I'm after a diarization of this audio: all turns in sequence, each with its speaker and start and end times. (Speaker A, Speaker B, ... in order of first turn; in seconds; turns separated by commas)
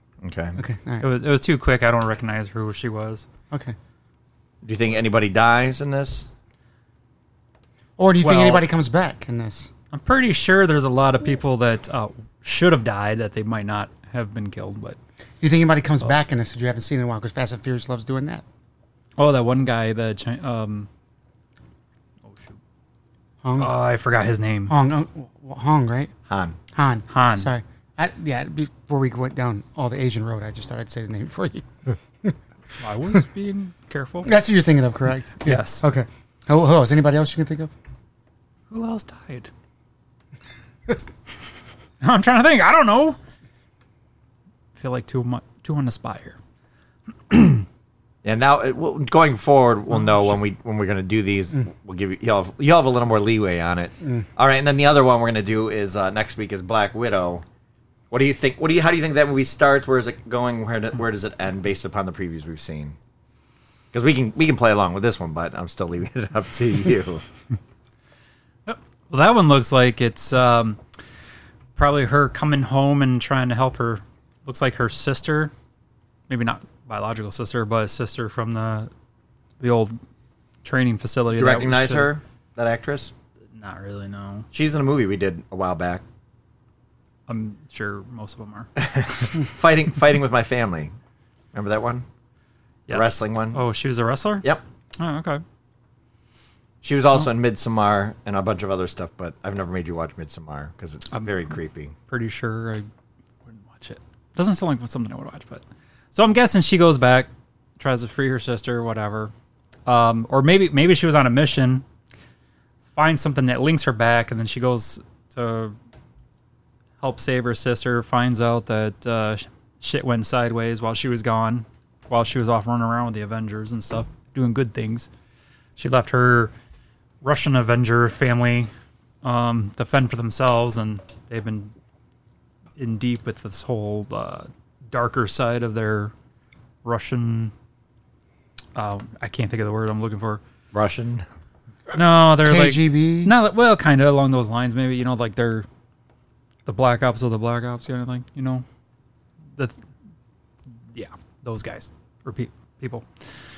Speaker A: 0.2-0.6, Speaker B: 0.6-1.1, Speaker C: 1.0-3.2, Speaker A: 4.6-6.3, Speaker B: 8.0-9.7, Speaker C: 8.2-8.7, Speaker C: 9.9-15.0, Speaker B: 15.4-18.4, Speaker C: 19.2-20.9, Speaker C: 22.2-22.6, Speaker B: 23.4-23.7, Speaker C: 23.6-24.7, Speaker B: 24.7-26.1, Speaker A: 26.3-26.6, Speaker B: 26.7-31.7, Speaker C: 27.1-27.5, Speaker C: 32.8-34.3, Speaker B: 34.2-37.7, Speaker C: 35.4-35.9, Speaker C: 38.7-39.5, Speaker C: 42.0-43.2, Speaker C: 44.7-46.4, Speaker C: 47.3-47.6, Speaker A: 48.2-57.4, Speaker C: 49.9-50.4, Speaker A: 58.1-63.0, Speaker A: 63.9-67.2, Speaker C: 68.7-70.8, Speaker C: 71.8-75.5, Speaker C: 76.3-78.9, Speaker C: 79.6-80.0, Speaker C: 80.6-82.1, Speaker A: 81.3-83.1, Speaker C: 83.5-84.5, Speaker A: 84.5-86.0, Speaker C: 87.3-88.7, Speaker A: 88.8-90.9, Speaker A: 91.5-92.0, Speaker C: 92.9-94.4, Speaker A: 92.9-93.6, Speaker C: 95.0-95.4, Speaker A: 96.8-101.9, Speaker C: 101.1-101.5, Speaker C: 102.1-102.9, Speaker C: 103.5-109.3, Speaker C: 109.8-111.8, Speaker C: 112.9-115.8, Speaker C: 117.0-125.1, Speaker C: 125.8-126.5, Speaker C: 127.2-128.7, Speaker C: 129.2-131.7, Speaker C: 132.8-136.1, Speaker C: 136.8-137.5, Speaker C: 138.7-140.4, Speaker A: 140.7-141.2, Speaker C: 141.9-145.7, Speaker B: 142.4-143.3, Speaker C: 146.7-148.6, Speaker C: 150.9-153.1